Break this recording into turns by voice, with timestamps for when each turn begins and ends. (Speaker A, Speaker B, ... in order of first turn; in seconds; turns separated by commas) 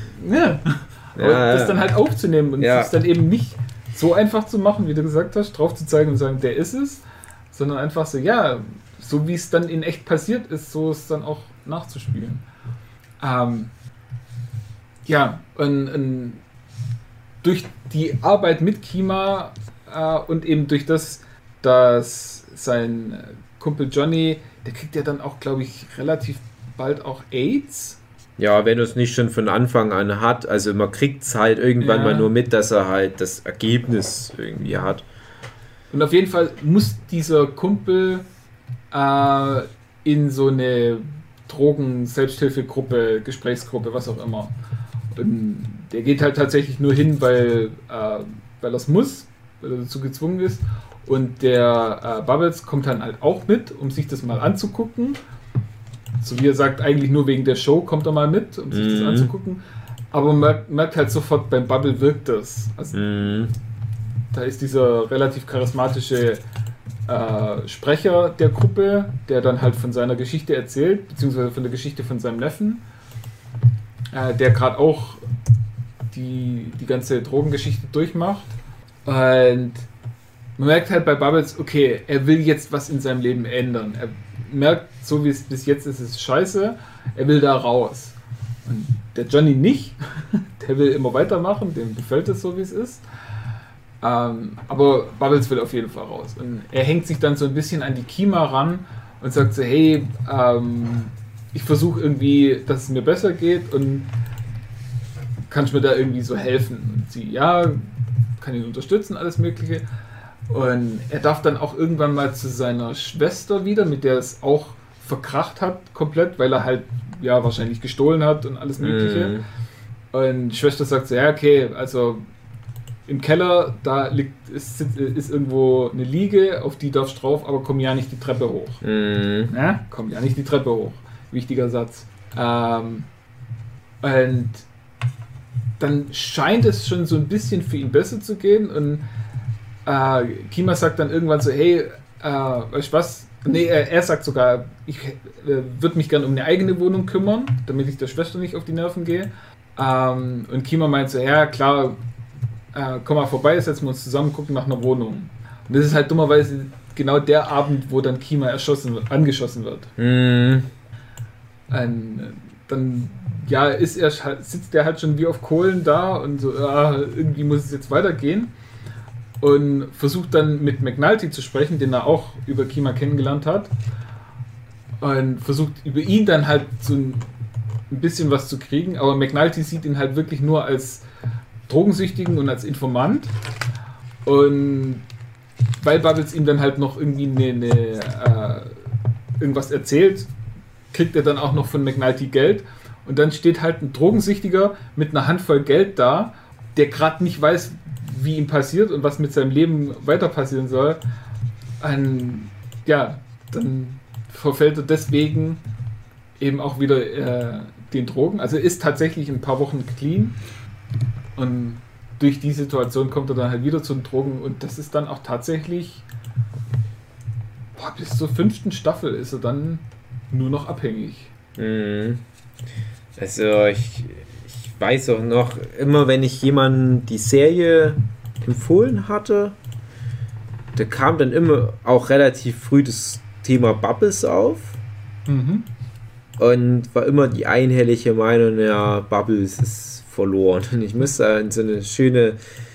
Speaker A: 0.2-12.4, Speaker B: 1.2-1.9, Speaker B: 2.6-3.0, Speaker A: 13.2-13.7, Speaker A: 15.1-16.4, Speaker A: 17.4-28.0, Speaker B: 28.4-35.0, Speaker A: 31.8-32.3, Speaker A: 34.6-34.9, Speaker A: 35.9-38.3, Speaker A: 38.9-44.5, Speaker A: 45.1-55.2, Speaker A: 56.2-59.6, Speaker B: 58.7-59.3, Speaker A: 60.1-63.0, Speaker B: 62.9-63.5, Speaker A: 64.3-66.4, Speaker A: 67.1-72.8, Speaker A: 74.1-75.2, Speaker A: 76.1-78.5, Speaker A: 79.0-79.9, Speaker A: 80.6-93.0, Speaker A: 94.0-104.1, Speaker A: 105.5-107.8, Speaker A: 108.4-109.8, Speaker A: 110.5-119.4, Speaker B: 118.8-119.5, Speaker A: 120.1-122.3, Speaker A: 123.1-128.8, Speaker B: 128.8-129.5, Speaker A: 129.5-133.1, Speaker A: 134.0-134.7, Speaker A: 135.8-139.0, Speaker A: 139.8-152.0, Speaker A: 152.7-159.9, Speaker B: 160.0-160.7, Speaker A: 161.7-168.5, Speaker A: 169.4-173.7, Speaker A: 175.0-177.3, Speaker A: 177.9-181.0, Speaker A: 181.7-183.3, Speaker A: 184.2-185.1, Speaker A: 185.8-188.8, Speaker A: 189.4-190.3, Speaker A: 190.9-201.0, Speaker A: 201.8-205.6, Speaker A: 206.4-210.4, Speaker A: 211.4-216.1, Speaker A: 217.8-221.3, Speaker B: 221.6-222.2, Speaker B: 223.2-229.6, Speaker B: 230.8-234.8, Speaker A: 235.3-235.7, Speaker B: 236.4-242.4